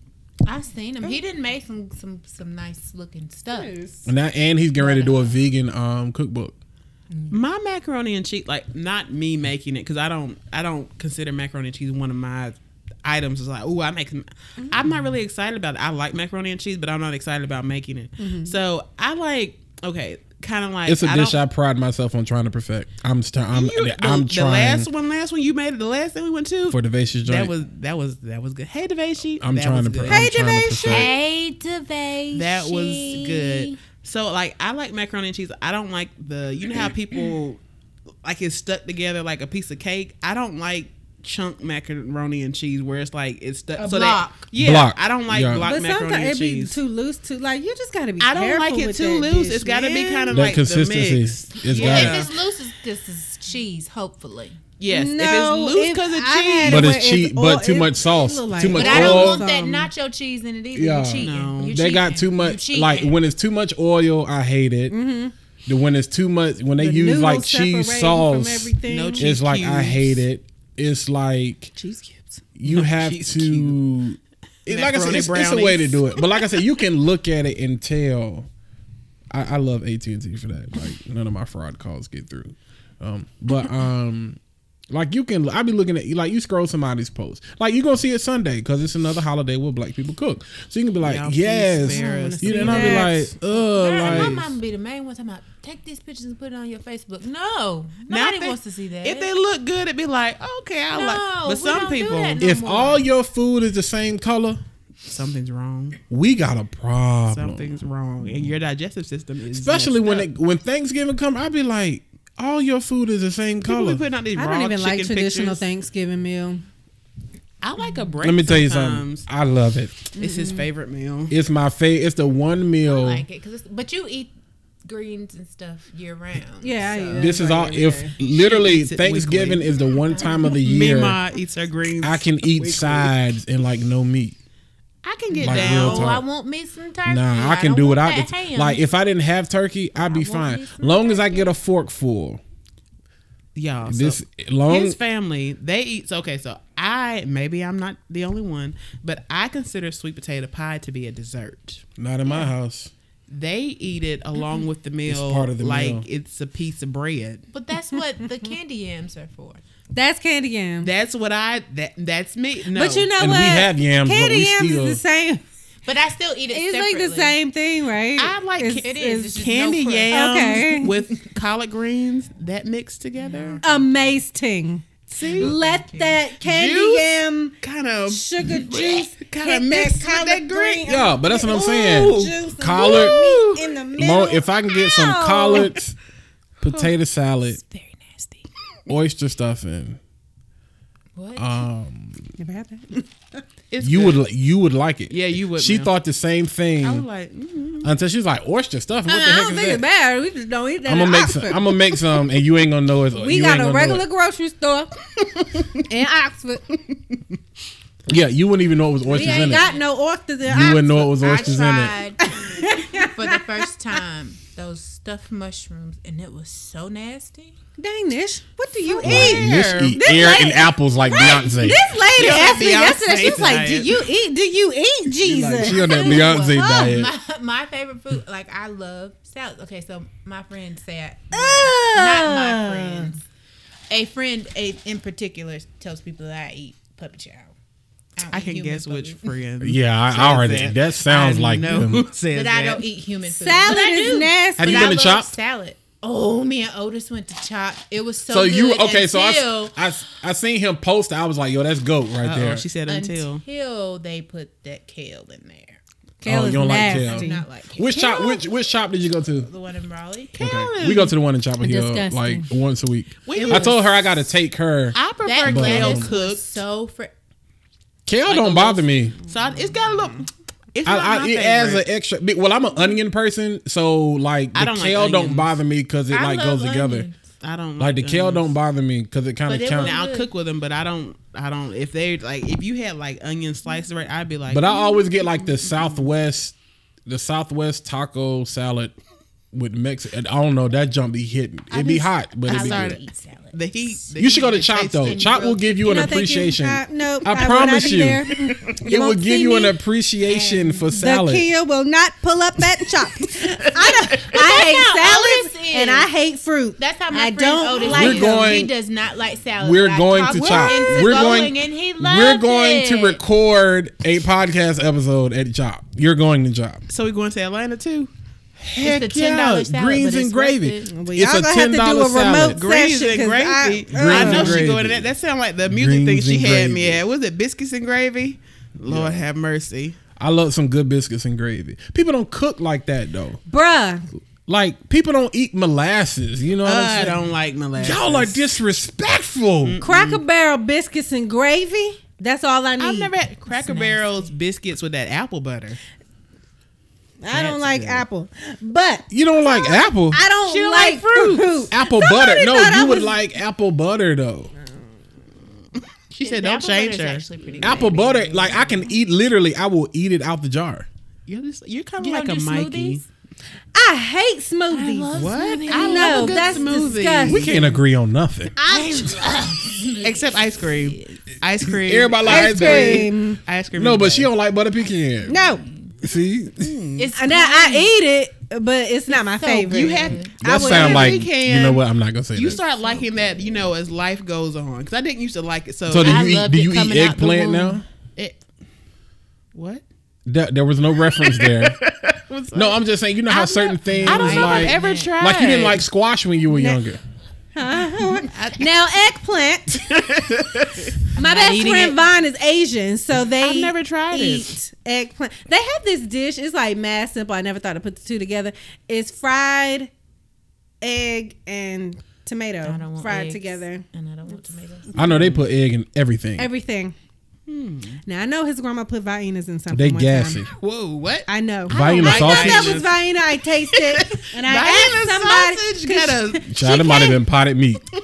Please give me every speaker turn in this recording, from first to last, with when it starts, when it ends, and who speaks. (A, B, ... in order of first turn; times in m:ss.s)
0:00.4-0:03.7 A
0:03.5-0:04.1 B
0:04.1-0:06.5 C
0:04.8-0:05.3 A
0:07.3-0:21.4 D
0:18.2-0:18.6 B
0:20.9-0:24.9 C
0:23.5-0:30.3 D
0:26.7-0:27.5 C
0:29.4-0:31.1 C
0:30.1-0:31.1 B
0:30.9-0:33.8 A
0:32.3-0:37.6 D
0:38.2-0:46.8 D
0:43.8-0:44.5 A
0:44.6-0:45.7 C
0:45.6-0:50.4 B
0:48.2-0:52.3 D
0:50.3-0:52.3 C
0:51.7-0:54.6 A
0:54.8-0:56.9 D
0:54.9-0:59.9 B
0:56.7-0:59.4 C
0:58.7-1:03.2 A
1:00.7-1:05.0 C
1:01.2-1:01.8 D
1:04.9-1:05.3 B
1:05.7-1:11.7 C
1:06.8-1:09.3 B
1:08.9-1:10.2 D
1:11.8-1:12.4 B
1:12.6-1:18.5 C
1:12.7-1:13.8 D
1:14.7-1:16.4 D
1:19.3-1:24.4 C
1:24.9-1:34.4 C
1:31.0-1:33.2 D
1:31.8-1:33.3 B
1:33.7-1:39.3 A
1:33.9-1:34.6 D
1:38.1-1:42.4 D
1:40.9-1:43.0 A
1:42.4-1:44.6 C
1:45.1-1:46.0 D
1:46.1-1:47.8 C
1:47.3-1:50.3 D
1:49.5-1:54.0 C
1:53.6-1:55.6 D
1:54.4-1:56.6 B
1:57.6-1:59.3 D
1:58.2-2:00.1 C
2:00.2-2:01.3 D
2:00.2-2:00.7 B
2:01.3-2:03.2 C
2:02.9-2:04.3 A
2:04.8-2:07.3 A
2:06.6-2:08.1 B
2:07.2-2:11.2 C
2:08.2-2:09.8 D
2:10.4-2:13.1 D
2:12.0-2:14.4 C
2:15.0-2:16.2 D
2:15.4-2:16.2 C
2:15.4-2:18.8 A
2:17.1-2:22.4 C
2:20.0-2:21.6 A
2:23.6-2:31.8 D
2:23.9-2:25.0 C
2:32.0-2:32.9 C
2:33.3-2:37.4 D
2:35.1-2:36.0 C
2:37.5-2:39.6 A
2:39.9-2:40.9 B
2:40.8-2:43.1 D
2:42.7-2:45.4 B
2:43.2-2:45.0 C
2:45.8-2:47.4 A
2:46.5-2:49.4 B
2:48.2-2:53.6 D
2:48.8-2:50.9 A
2:50.1-2:51.0 B
2:53.2-2:53.9 A
2:53.6-2:57.6 B
2:55.1-2:55.6 D
2:55.3-2:56.2 A
2:56.4-2:57.1 D
2:57.6-3:00.8 D
2:58.1-3:05.8 B
3:00.8-3:03.2 C
3:01.5-3:03.7 D
3:04.0-3:06.0 C
3:06.6-3:07.6 C
3:07.5-3:08.4 A
3:08.9-3:10.0 C
3:11.2-3:11.6 A
3:11.4-3:12.3 C
3:12.4-3:13.1 B
3:13.7-3:14.2 D
3:13.8-3:17.0 C
3:15.1-3:15.9 D
3:16.8-3:17.9 D
3:17.8-3:19.8 C
3:19.1-3:22.0 B
3:20.9-3:24.0 C
3:23.2-3:24.9 B
3:25.8-3:26.7 B
3:28.1-3:29.7 C
3:29.1-3:29.9 A
3:29.1-3:31.4 B
3:30.5-3:32.0 C
3:31.2-3:37.5 A
3:32.2-3:33.4 B
3:37.8-3:46.9 B
3:38.9-3:40.0 D
3:39.0-3:41.8 C
3:42.1-3:44.0 D
3:45.2-3:47.1 C
3:45.6-3:53.2 A
3:51.3-3:53.2 B
3:53.9-3:57.5 A
3:58.2-3:59.3 A
3:58.3-4:02.8 D
3:59.6-4:02.1 C
4:02.3-4:09.8 A
4:03.3-4:05.1 B
4:04.6-4:05.4 C
4:08.3-4:12.6 C
4:12.2-4:13.4 D
4:12.9-4:15.8 A
4:16.2-4:17.5 B
4:16.2-4:19.5 C
4:16.6-4:18.4 A
4:19.4-4:20.4 A
4:20.3-4:21.2 D
4:20.4-4:26.1 C
4:21.6-4:22.5 B
4:23.3-4:23.8 D
4:23.3-4:23.8 A
4:25.0-4:26.5 D
4:25.2-4:27.1 A
4:28.1-4:29.2 C
4:28.3-4:31.8 D
4:30.8-4:37.1 C
4:34.5-4:35.5 D
4:36.1-4:37.2 A
4:37.4-4:38.5 D
4:37.8-4:40.0 C
4:39.5-4:40.3 A
4:39.8-4:44.8 D
4:44.5-4:49.0 C
4:45.6-4:46.1 D
4:49.5-4:53.0 C
4:51.7-4:55.7 D
4:52.5-4:55.6 A
4:54.2-5:01.5 C
4:55.8-4:59.8 B
5:00.3-5:00.9 A
5:00.9-5:08.6 B
5:03.4-5:04.2 D
5:04.3-5:06.1 A
5:06.8-5:13.2 A
5:07.9-5:08.7 C
5:09.6-5:16.8 C
5:10.3-5:11.4 D
5:16.9-5:18.1 D
5:18.6-5:22.6 C
5:18.8-5:20.9 A
5:20.9-5:24.7 B
5:22.5-5:30.0 D
5:23.9-5:25.1 C
5:25.7-5:27.0 C
5:28.9-5:29.2 C
5:30.2-5:33.4 C
5:33.5-5:34.1 B
5:34.5-5:37.2 C
5:36.6-5:38.4 D
5:37.8-5:39.8 C
5:39.6-5:40.2 D
5:39.8-5:43.1 B
5:42.8-5:45.8 D
5:43.5-5:44.3 A
5:47.2-5:53.2 B
5:47.3-5:48.0 D
5:49.1-5:50.2 C
5:50.4-5:51.7 D
5:51.7-5:54.5 C
5:56.1-5:57.8 D
5:56.2-5:58.9 A
5:57.6-6:00.9 C
6:01.3-6:03.0 D
6:02.0-6:03.0 A
6:03.8-6:05.2 B
6:04.7-6:07.0 A
6:05.1-6:07.8 D
6:05.7-6:07.5 B
6:07.3-6:08.6 C
6:08.6-6:09.2 B
6:08.6-6:11.2 A
6:10.0-6:14.3 D
6:11.7-6:13.1 C
6:12.2-6:13.4 B
6:13.8-6:15.4 C
6:15.3-6:15.6 B
6:15.3-6:15.9 A
6:16.0-6:16.7 C
6:16.6-6:17.1 D
6:17.0-6:17.9 A
6:17.2-6:21.2 B
6:19.1-6:20.4 A
6:19.7-6:26.4 D
6:20.4-6:22.6 C
6:22.5-6:23.7 A
6:25.9-6:27.8 C
6:25.9-6:27.8 A
6:29.5-6:29.8 D
6:30.3-6:31.8 C
6:31.2-6:35.8 D
6:32.5-6:37.0 C
6:33.8-6:35.1 A
6:36.5-6:36.8 B
6:37.6-6:39.9 B
6:38.3-6:38.7 D
6:39.8-6:41.0 D
6:41.2-6:42.0 A
6:41.2-6:49.9 B
6:43.3-6:44.5 D
6:50.8-6:53.8 B
6:52.6-6:54.9 A
6:54.9-6:55.4 D
6:55.0-6:56.5 C
6:56.4-6:57.0 B
6:57.5-6:58.0 D
6:58.1-7:00.4 B
6:59.7-7:00.5 C
7:00.6-7:03.0 D
7:01.3-7:07.2 B
7:01.7-7:02.8 C
7:03.7-7:06.4 D
7:06.5-7:07.8 C